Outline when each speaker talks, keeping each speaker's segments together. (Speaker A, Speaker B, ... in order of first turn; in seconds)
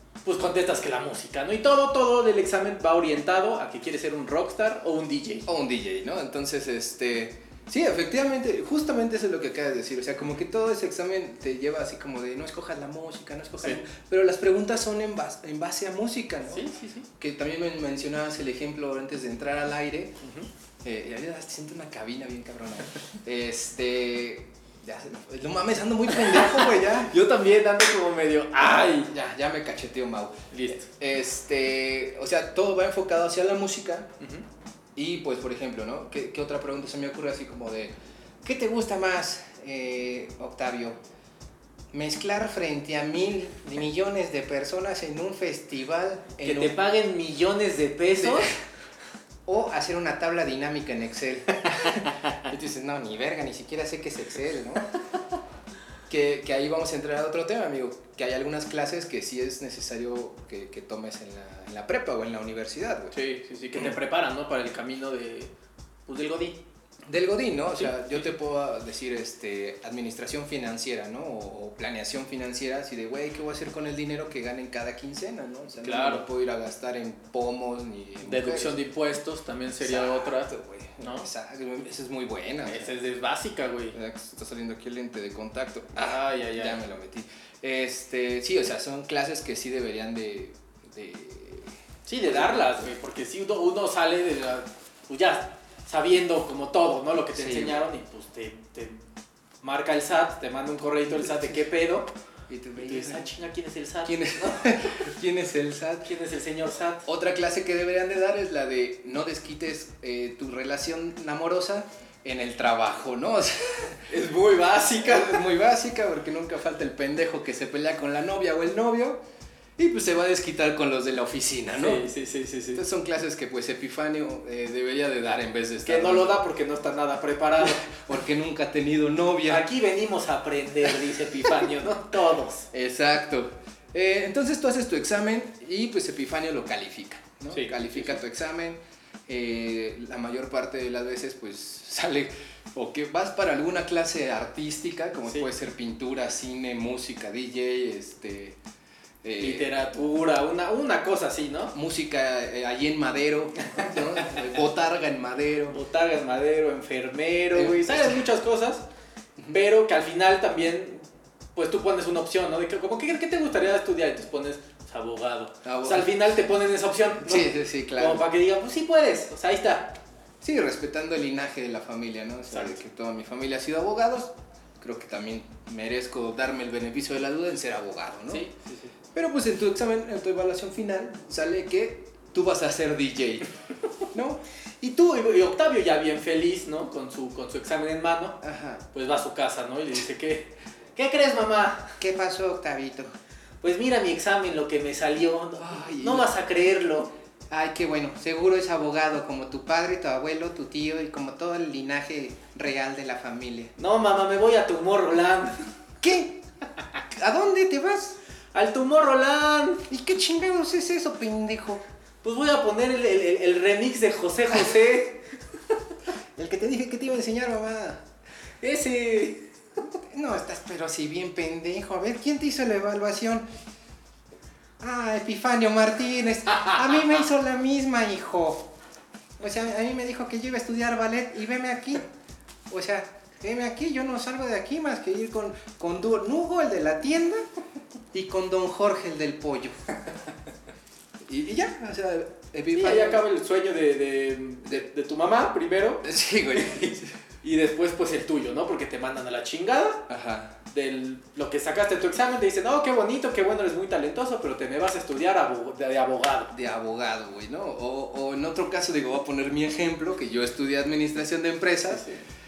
Speaker A: 0.2-5.5, 16.5-17.1, 20.2-20.5, 26.2-29.1, 30.5-30.9, 34.2-34.5, 46.4-48.6, 63.1-65.5, 66.1-66.6, 75.8-76.2, 78.2-81.3, 82.7-84.0, 86.0-86.8, 92.1-99.0, 99.6-102.1, 102.8-105.0, 106.0-107.1, 114.1-115.5, 121.8-122.8, 125.8-127.9, 129.5-132.7, 137.5-138.2, 149.4-151.8, 155.7-158.8, 159.5-170.0, 172.5-172.8, 178.3-178.9, 184.8-188.4, 188.9-192.0, 193.6-197.1, 203.8-205.7, 208.5-209.9, 212.2-215.3, 218.6-219.5, 242.7-250.1, 250.7-256.5, 261.9-262.2
Speaker B: 5.5-20.2, 20.8-27.1, 29.1-34.1, 35.0-41.0, 41.9-46.8, 48.2-48.6, 49.5-54.9, 56.1-63.1, 67.1-78.8, 79.8-82.9, 83.9-92.9, 97.3-97.9, 102.5-103.3, 104.0-106.1, 107.1-114.0, 115.0-119.2, 119.8-122.1, 122.8-126.4, 127.6-129.7, 132.7-148.6, 149.2-149.7, 151.7-155.8, 157.5-158.2, 165.7-166.1, 167.2-168.3, 170.4-178.4, 179.1-183.5, 184.1-184.4, 188.4-188.8, 192.0-193.1, 195.6-196.3, 197.5-203.7, 206.0-206.4, 207.1-208.2, 209.9-211.8, 216.4-218.0, 220.1-223.5, 224.8-228.7, 229.4-232.1, 232.7-237.4, 238.1-239.8, 241.3-243.2, 246.0-247.1, 250.1-250.6, 256.5-262.1